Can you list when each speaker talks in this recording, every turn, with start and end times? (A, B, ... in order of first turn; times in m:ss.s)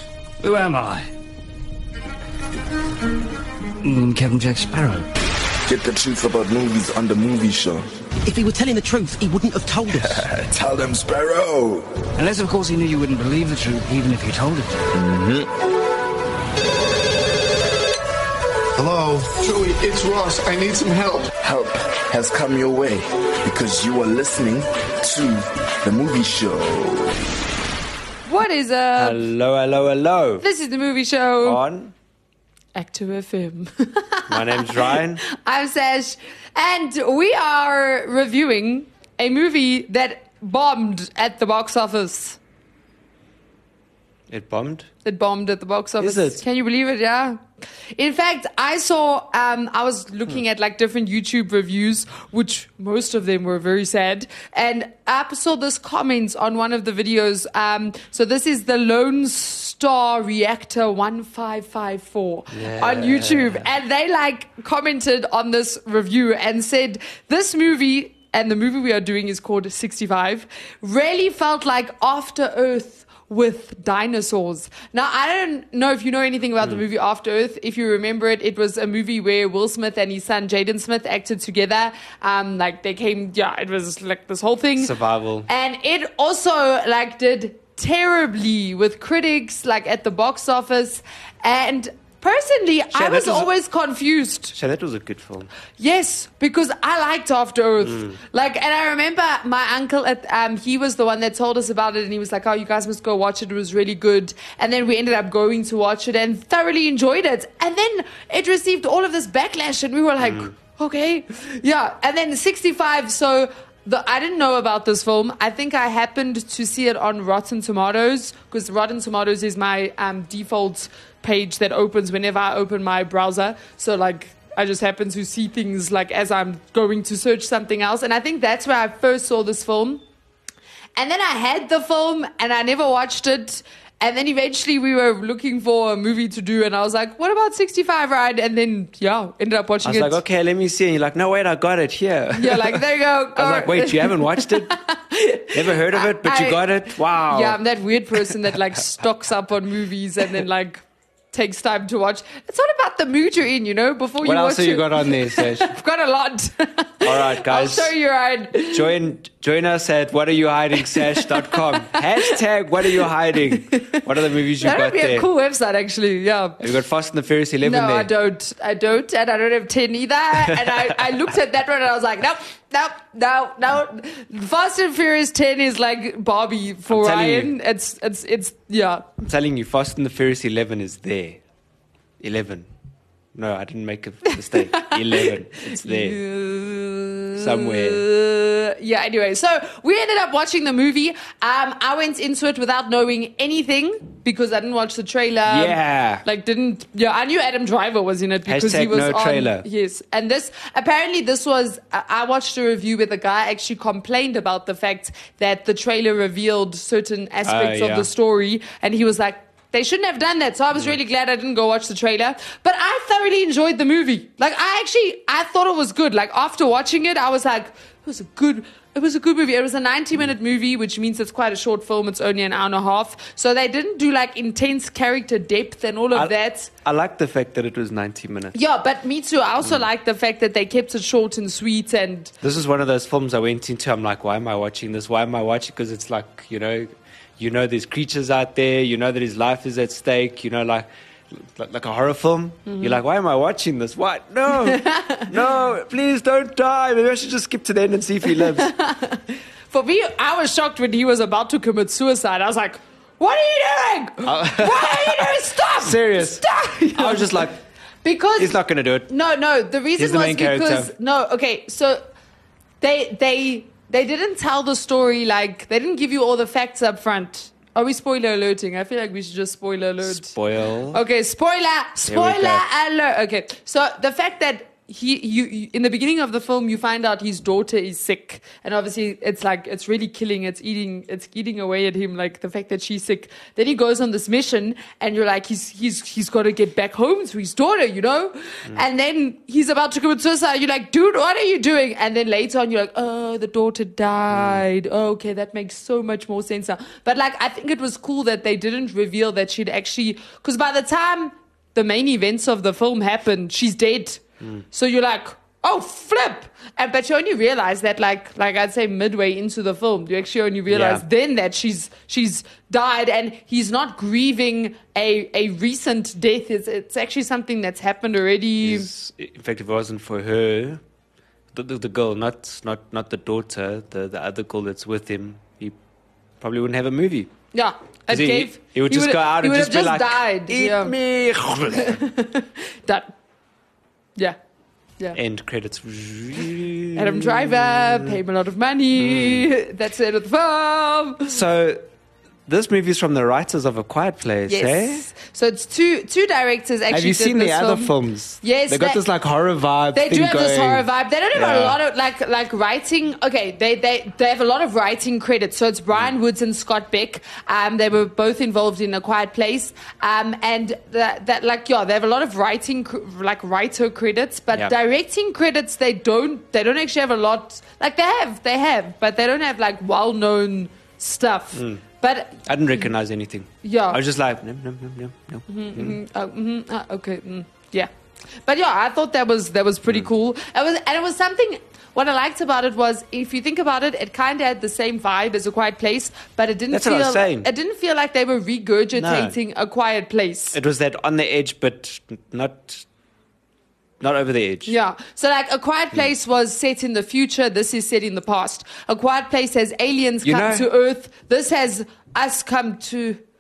0:00.4-0:01.1 A
0:03.8-0:05.1 A
0:05.6-0:07.9 B
0:08.2-0:10.2 C
0:10.0-0:11.9 B
0:12.2-0:14.9 A
0:14.9-0:15.5 B
0:18.8-0:21.2 D
0:21.4-0:27.2 B
0:28.2-0:29.2 E
0:29.0-0:30.4 F
0:30.4-0:31.6 E
0:31.4-0:31.9 F
0:32.7-0:42.4 E
0:34.3-0:35.2 F
0:44.3-0:44.9 F
0:45.0-0:47.4 E
0:46.0-0:46.4 F
0:48.0-1:24.9 E
1:02.5-1:03.6 F
1:24.8-1:25.5 F
1:25.5-1:34.5 E
1:32.9-1:33.5 F
1:34.5-1:35.5 F
1:35.8-2:10.0 E
1:37.8-1:38.2 F
1:50.2-1:50.5 F
2:11.0-2:20.2 E
2:19.8-2:22.8 F
2:22.3-2:38.9 E
2:23.3-2:24.7 F
2:25.5-2:27.6 F
2:34.2-2:35.7 F
2:37.0-2:37.9 F
2:38.6-2:45.2 F
2:40.8-2:46.7 E
2:46.6-2:48.1 F
2:47.6-2:59.0 E
2:50.3-2:51.0 F
2:56.9-2:57.5 F
2:59.2-3:01.4 F
3:02.2-3:02.7 F
3:03.3-3:06.2 F
3:04.5-3:46.7 E
3:07.3-3:08.0 F
3:15.4-3:16.2 F
3:18.4-3:19.6 F
3:27.4-3:28.1 F
3:46.1-3:48.6 F
3:48.5-3:52.3 E
3:52.4-4:08.7 F
4:02.7-4:03.0 E
4:04.5-4:05.3 E
4:08.4-4:17.5 E
4:14.2-4:17.6 F
4:18.0-4:18.6 E
4:18.4-4:19.1 F
4:19.1-4:22.0 E
4:20.0-4:20.9 F
4:22.8-4:30.4 E
4:30.0-4:31.0 F
4:30.9-5:18.9 E
4:32.0-4:32.6 F
4:54.3-4:54.6 F
5:10.7-5:11.0 F
5:18.6-5:20.8 F
5:21.5-5:25.8 F
5:26.4-5:27.3 F
5:27.5-5:30.9 E
5:28.1-5:32.0 F
5:31.7-5:33.1 E
5:35.1-5:38.2 F
5:36.9-5:41.4 E
5:39.0-5:39.5 F
5:41.2-5:41.8 F
5:42.5-5:45.1 F
5:44.5-5:49.0 E
5:46.9-5:51.8 F
5:49.9-6:12.8 E
6:11.5-6:11.8 F
6:12.4-6:16.0 F
6:13.6-6:14.0 E
6:15.5-6:17.9 E
6:18.4-6:30.6 E
6:26.7-6:27.5 F
6:29.0-6:29.3 F
6:30.5-6:32.8 F
6:34.0-6:34.8 F
6:34.6-6:43.2 E
6:40.2-6:40.7 F